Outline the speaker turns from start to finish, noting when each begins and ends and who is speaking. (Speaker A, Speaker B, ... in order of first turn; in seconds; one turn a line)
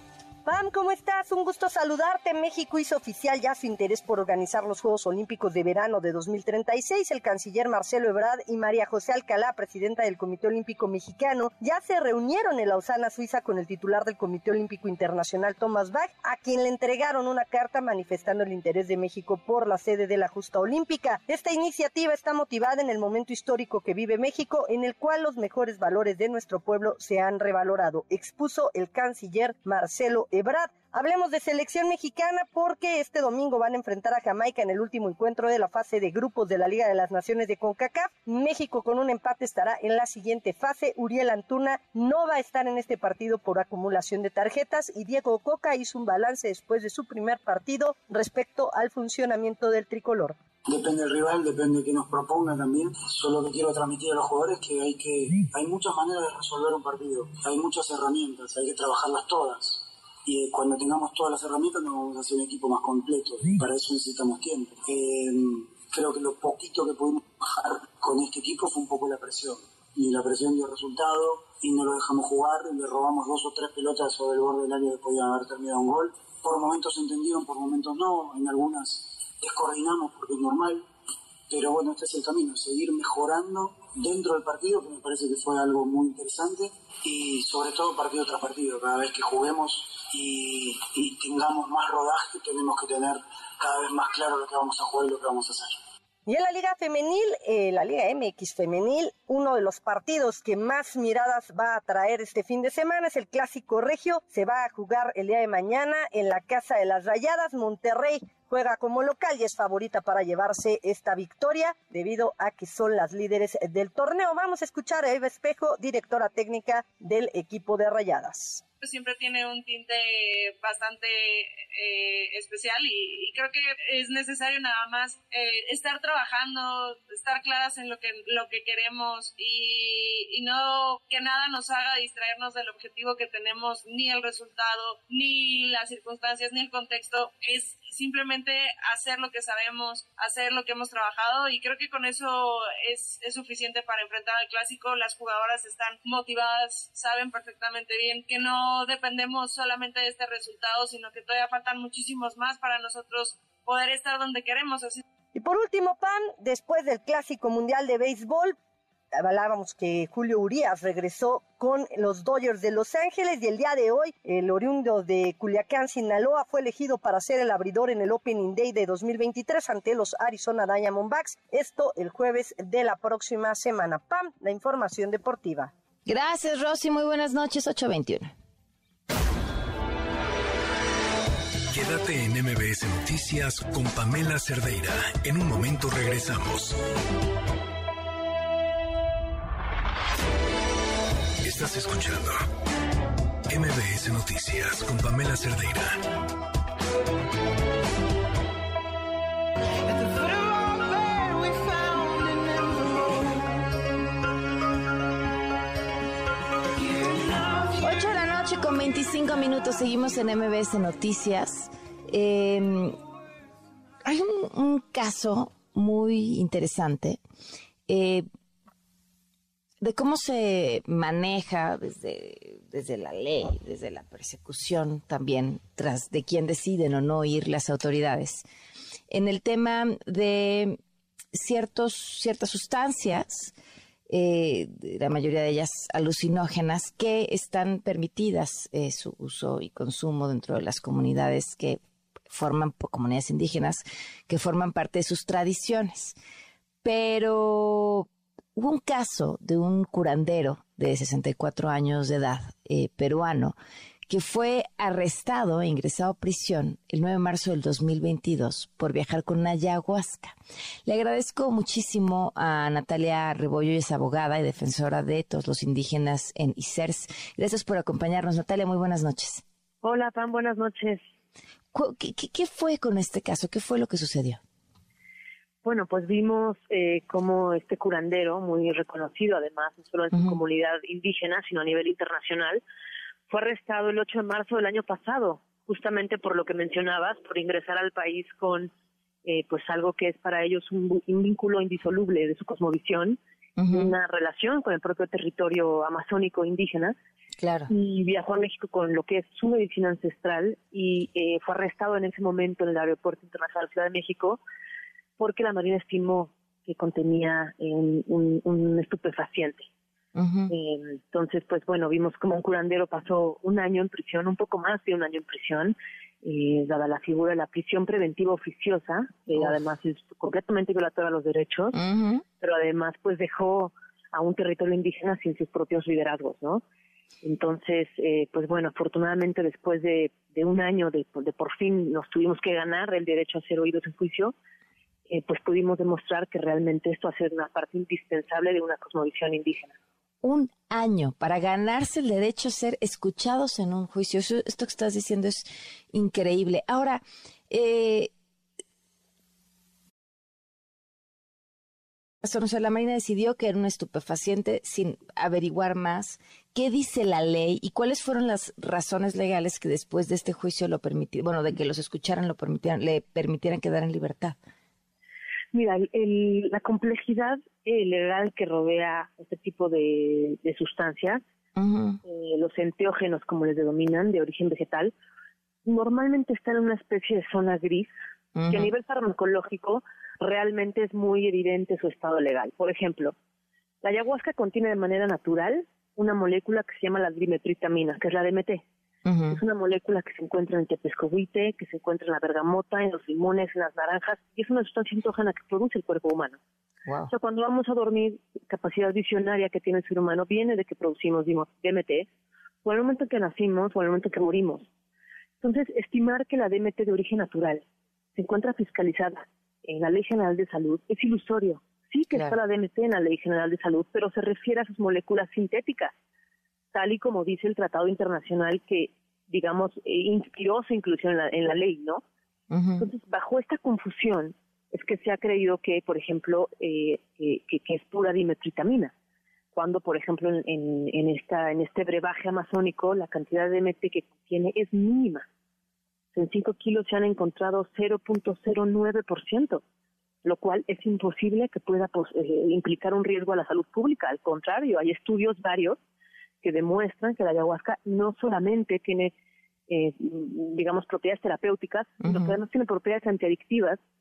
Speaker A: 0.5-50.4
Speaker B: 50.7-80.9
Speaker B: 81.5-95.8
Speaker A: 96.3-118.6
Speaker C: 118.8-155.0
Speaker A: 155.3-158.6
Speaker A: 159.2-175.7
Speaker D: 176.1-178.3
Speaker E: 181.7-186.8
Speaker E: 191.4-192.4
Speaker E: 193.5-196.0
Speaker D: 207.8-213.0
Speaker D: 214.1-217.2
Speaker D: 217.9-218.2
Speaker D: 219.8-228.4
Speaker D: 229.1-230.8
Speaker D: 231.3-233.5
Speaker D: 234.1-241.8
Speaker D: 242.3-246.2
Speaker D: 246.8-253.6
Speaker D: 254.1-260.4
Speaker D: 260.9-269.4
Speaker F: 269.8-271.0
Speaker D: 271.7-274.4
Speaker F: 275.6-282.6
Speaker F: 283.3-288.7
Speaker F: 289.2-293.2
Speaker D: 293.6-293.9
Speaker F: 293.7-296.9
Speaker D: 297.4-297.7
Speaker F: 297.7-304.4
Speaker F: 305.2-309.7
Speaker D: 310.2-310.5
Speaker F: 310.5-321.8
Speaker D: 321.7-322.2
Speaker F: 322.4-326.6
Speaker F: 327.2-334.3
Speaker F: 335.1-339.7
Speaker D: 340.2-348.1
Speaker D: 352.2-364.4
Speaker F: 365.5-371.2
Speaker D: 371.6-372.0
Speaker F: 372.1-374.9
Speaker F: 375.7-377.9
Speaker D: 378.4-378.7
Speaker F: 378.5-383.1
Speaker F: 383.8-388.6
Speaker D: 389.1-389.4
Speaker F: 389.3-396.4
Speaker D: 396.9-397.1
Speaker F: 397.1-402.1
Speaker F: 402.6-404.7
Speaker F: 405.4-407.6
Speaker F: 408.1-415.9
Speaker F: 416.7-422.0
Speaker D: 422.5-422.9
Speaker F: 422.8-428.9
Speaker F: 429.5-435.2
Speaker F: 436.1-439.6
Speaker F: 440.2-445.8
Speaker F: 446.4-449.1
Speaker F: 449.7-453.8
Speaker D: 452.0-452.4